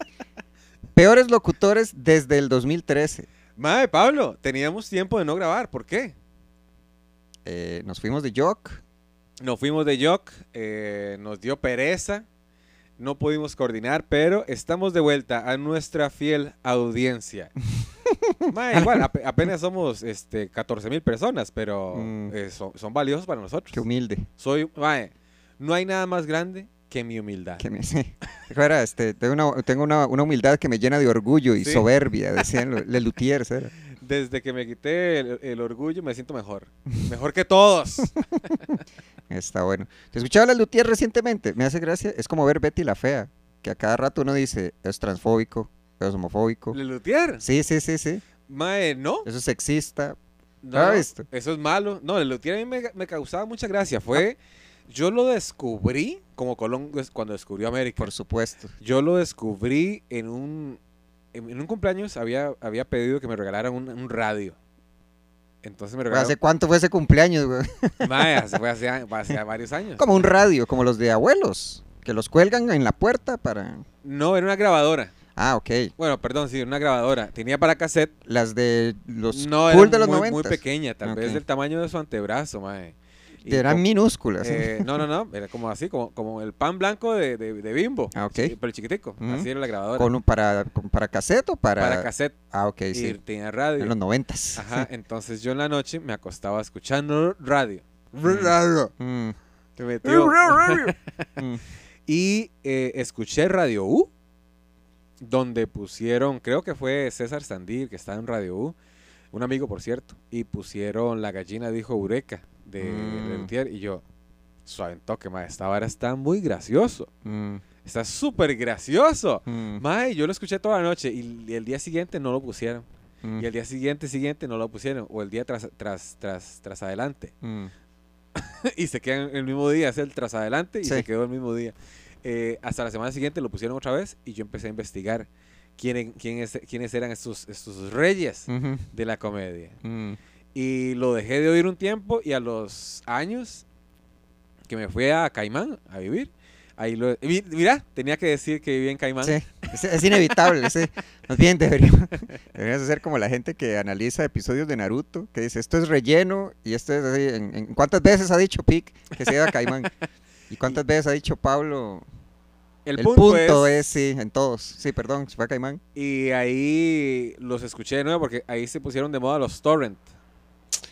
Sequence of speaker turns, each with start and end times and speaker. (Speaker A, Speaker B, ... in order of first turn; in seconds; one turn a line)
Speaker A: 1.0-3.3
Speaker B: 3.6-6.1
Speaker A: 7.5-8.8
Speaker B: 9.4-12.3
Speaker B: 13.0-17.5
Speaker A: 18.1-19.1
Speaker B: 18.5-23.8
Speaker A: 21.9-22.3
Speaker A: 23.7-24.3
Speaker B: 24.4-27.6
Speaker A: 27.6-33.7
Speaker B: 31.6-31.9
Speaker B: 33.9-38.8
Speaker A: 39.3-46.8
Speaker B: 46.7-47.4
Speaker A: 47.4-48.2
Speaker B: 48.5-49.3
Speaker A: 49.3-50.2
Speaker B: 50.6-54.4
Speaker A: 50.7-51.3
Speaker B: 54.9-58.1
Speaker A: 58.0-58.7
Speaker B: 58.8-60.8
Speaker B: 61.3-64.5
Speaker B: 65.6-66.4
Speaker A: 66.1-68.3
Speaker B: 68.0-70.1
Speaker A: 70.0-73.8
Speaker B: 74.0-75.1
Speaker A: 75.4-75.9
Speaker B: 76.0-78.1
Speaker A: 78.3-81.4
Speaker B: 79.3-83.8
Speaker A: 83.5-85.0
Speaker B: 84.4-90.1
Speaker A: 88.1-88.5
Speaker A: 89.2-93.2
Speaker B: 91.8-92.3
Speaker B: 92.9-93.9
Speaker A: 93.8-94.9
Speaker B: 94.6-98.9
Speaker A: 98.3-99.4
Speaker B: 99.8-101.0
Speaker A: 100.0-101.6
Speaker B: 102.1-104.1
Speaker B: 105.2-108.8
Speaker B: 109.3-114.0
Speaker A: 112.8-113.5
Speaker B: 114.7-117.1
Speaker A: 117.2-117.6
Speaker B: 117.8-122.8
Speaker A: 119.5-119.8
Speaker B: 123.4-127.3
Speaker A: 127.4-127.7
Speaker B: 128.3-139.8
Speaker A: 138.5-138.9
Speaker A: 139.8-140.2
Speaker B: 140.6-143.7
Speaker B: 144.7-149.4
Speaker A: 149.2-159.9
Speaker B: 150.2-150.7
Speaker A: 160.5-162.1
Speaker B: 162.9-163.8
Speaker A: 163.0-165.8
Speaker B: 165.9-170.1